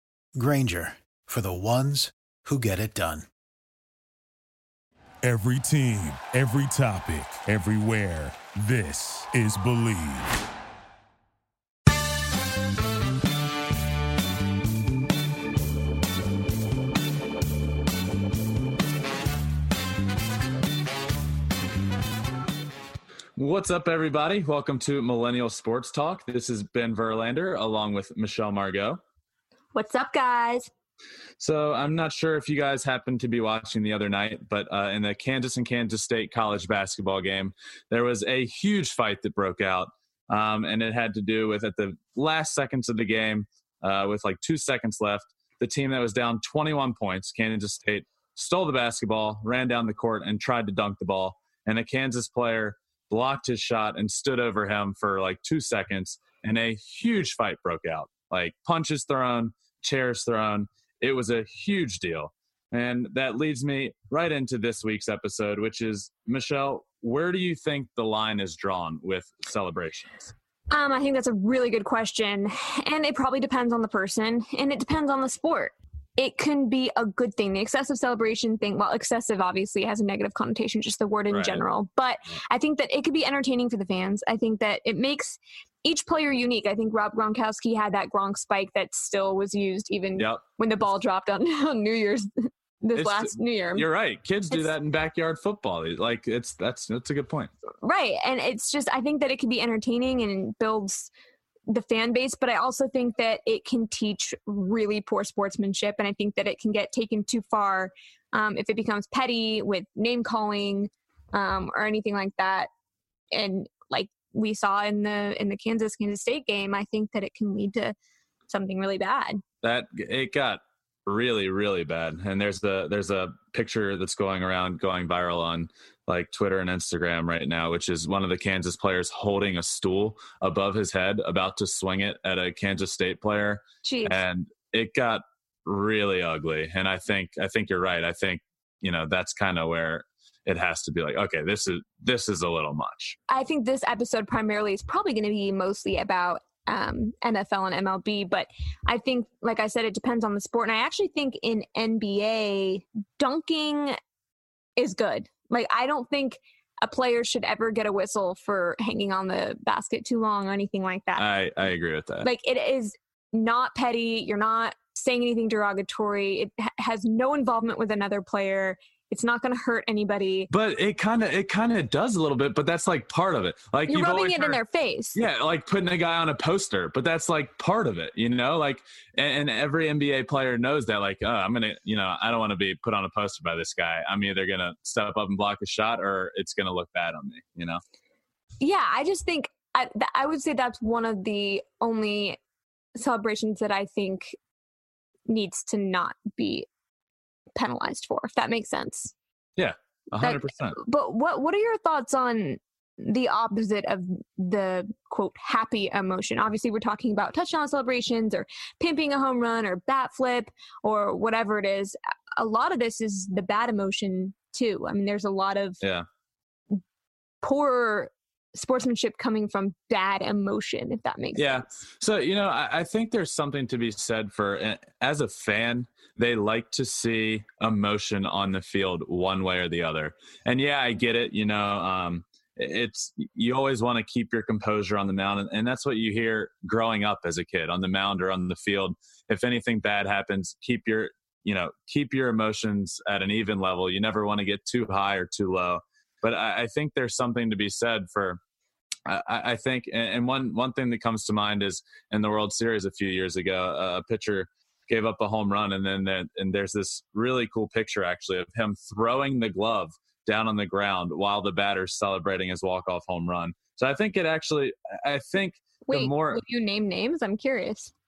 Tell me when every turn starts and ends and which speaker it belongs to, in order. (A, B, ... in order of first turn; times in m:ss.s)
0:00.4-0:03.3 A
0:05.2-0:10.4 B
0:23.4-0:29.0 C
0:29.7-0:30.7 D
0:31.4-1:10.3 C
1:10.7-1:33.9 D
1:21.3-1:21.6 C
1:33.0-1:37.5 C
1:37.8-1:41.1 D
1:41.7-1:52.7 D
1:53.3-1:57.9 D
1:58.5-1:59.4 D
1:59.6-2:23.2 C
2:13.8-2:14.2 D
2:23.3-2:34.0 D
2:34.8-2:41.3 D
2:41.2-2:42.3 C
2:42.2-2:50.5 D
2:50.5-2:54.6 C
2:53.9-2:55.2 D
2:55.1-3:07.8 C
3:08.6-3:12.4 D
3:13.0-3:14.4 D
3:15.3-3:16.6 D
3:17.6-3:19.1 D
3:19.6-3:20.8 C
3:20.2-3:35.8 D
3:37.4-3:41.7 D
3:41.4-4:08.4 C
4:09.0-4:26.4 C
4:25.9-4:27.9 D